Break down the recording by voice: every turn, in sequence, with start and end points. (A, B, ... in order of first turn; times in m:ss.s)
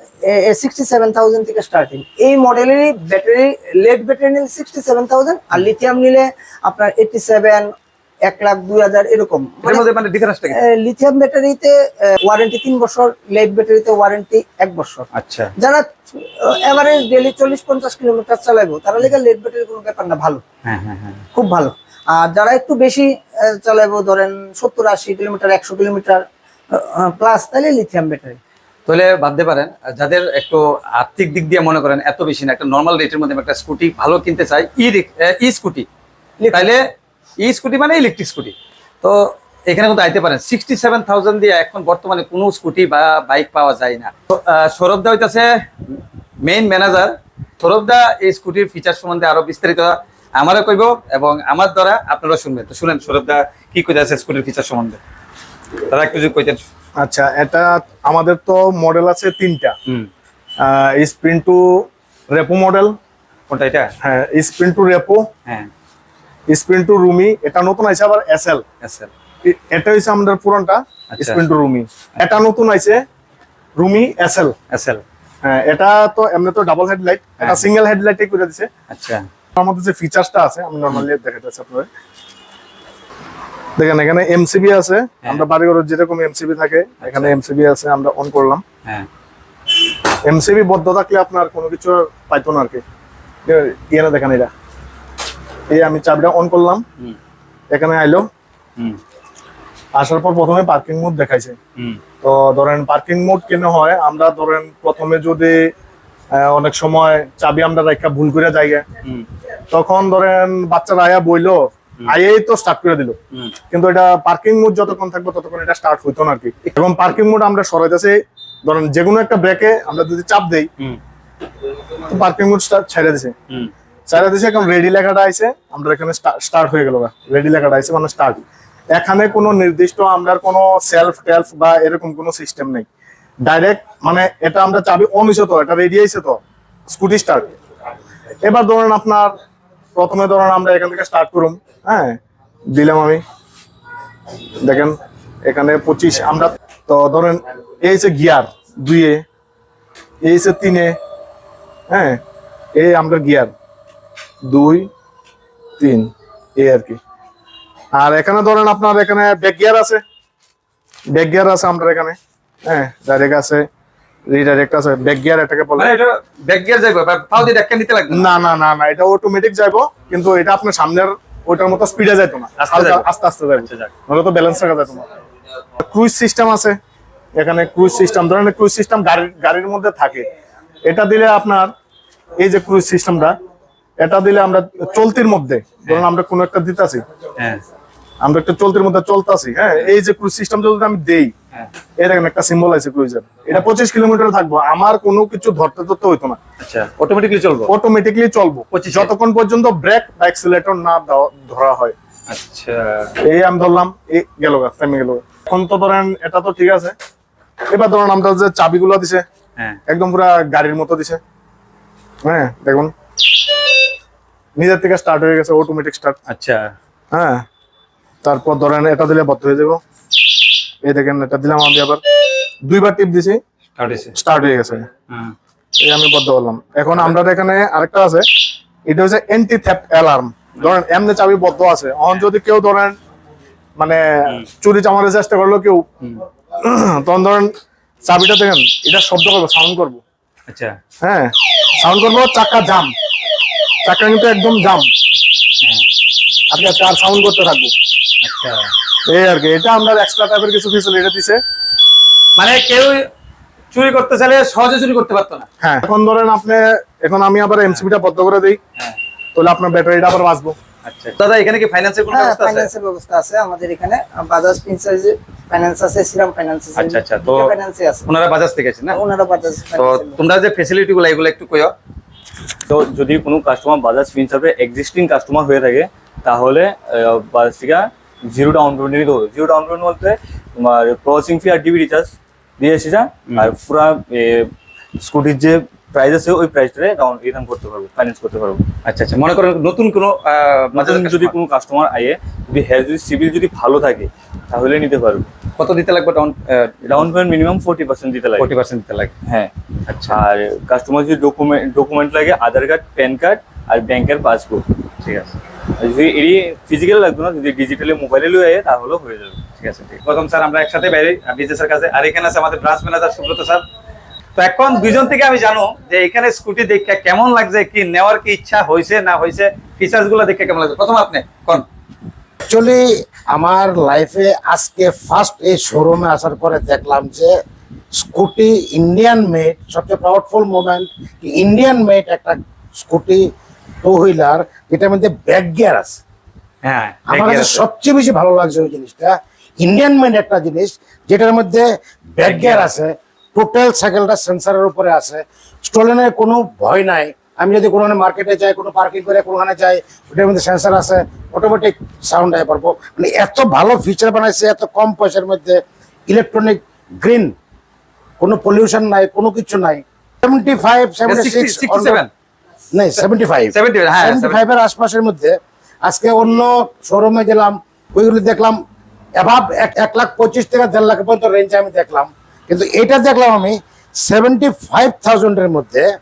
0:00.2-0:07.7 A
0:08.2-0:09.9 A
0:09.6-0:10.6 B
0:10.5-0:15.1 A
0:15.1-0:15.5 B
0:15.6-0:20.4 A
0:20.6-0:21.3 B
0:21.3-0:28.4 A
0:28.9-0:35.9 B
0:36.4-0:36.7 A
0:36.5-0:36.8 B
0:37.4-0:45.5 B
0:46.4-0:55.0 B
0:55.9-0:56.6 B
0:57.0-0:59.8 C
1:00.6-1:03.0 C
1:03.5-1:03.9 B
1:04.0-1:05.2 C
1:06.5-1:08.6 C
1:08.8-1:09.1 B
1:09.4-1:13.0 C
1:11.1-1:11.4 B
1:13.8-1:14.6 C
1:14.7-1:15.0 B
1:15.4-1:18.7 C
1:18.9-1:19.2 B
1:19.6-1:21.9 C
1:23.8-1:28.6 C
1:27.0-1:27.3 B
1:30.2-1:32.8 C
1:33.5-1:34.5 C
1:35.7-1:36.8 C
1:37.7-1:38.3 C
1:40.0-1:41.6 C
1:42.2-1:45.7 C
1:46.3-1:48.8 C
1:49.7-1:53.2 C
1:53.7-2:00.7 C
2:02.1-2:03.3 C
2:04.1-2:08.4 C
2:08.9-2:12.9 C
2:13.5-2:17.5 C
2:18.4-2:19.4 C
2:20.0-2:22.2 C
2:22.7-2:23.2 C
2:24.6-2:29.2 C
2:30.2-2:31.0 C
2:31.9-2:32.2 C
2:32.8-2:33.5 C
2:34.5-2:34.9 C
2:35.8-2:37.0 C
2:37.9-2:40.0 C
2:41.1-2:43.7 C
2:44.3-2:46.0 C
2:45.8-2:48.3 B
2:48.1-2:55.0 C
2:52.6-2:53.1 B
2:53.6-2:53.9 B
2:55.8-2:56.8 C
2:57.4-3:00.2 C
3:00.9-3:01.7 C
3:02.4-3:03.3 C
3:04.0-3:07.0 C
3:07.4-3:07.6 B
3:08.2-3:11.3 C
3:12.0-3:16.4 C
3:16.6-3:17.7 B
3:17.7-3:22.0 C
3:18.7-3:19.1 B
3:22.3-3:23.1 B
3:23.3-3:26.9 C
3:27.7-3:29.2 C
3:29.9-3:31.2 C
3:32.2-3:32.9 C
3:34.6-3:36.2 C
3:36.3-3:36.6 B
3:37.1-3:37.4 C
3:38.2-3:39.8 C
3:40.8-3:42.0 C
3:42.6-3:43.4 C
3:43.8-3:44.2 B
3:44.2-3:44.9 C
3:45.8-3:48.3 C
3:48.9-3:53.0 C
3:53.8-3:55.8 C
3:56.6-3:57.5 C
3:58.1-4:00.0 C
4:00.5-4:00.7 B
4:01.0-4:02.9 C
4:03.8-4:04.9 C
4:06.5-4:07.7 C
4:08.2-4:08.7 B
4:09.1-4:11.4 C
4:12.4-4:13.0 B
4:13.7-4:15.5 B
4:15.6-4:18.6 C
4:19.4-4:20.6 C
4:20.8-4:22.7 B
4:22.1-4:28.1 A
4:26.8-4:27.5 B
4:28.1-4:29.0 B
4:28.9-4:30.2 A
4:29.8-4:31.7 B
4:32.7-4:48.7 D
4:48.8-4:51.4 B
4:50.8-4:55.3 D
4:55.6-4:57.0 B
4:56.9-4:58.5 D
4:58.4-4:59.1 B
4:59.2-4:59.5 D
4:59.9-5:00.2 B
5:00.1-5:04.6 D
5:05.0-5:05.3 B
5:05.8-5:09.4 D
5:09.6-5:13.6 B
5:14.4-5:21.6 B
5:22.5-5:27.4 E
5:28.0-5:33.3 E
5:33.8-5:36.0 E
5:36.6-5:37.6 B
5:37.1-5:57.3 E
5:42.2-5:42.7 B
5:58.2-6:02.0 E
6:01.1-6:02.1 B
6:02.7-6:08.6 E
6:03.5-6:04.4 B
6:09.2-6:15.9 E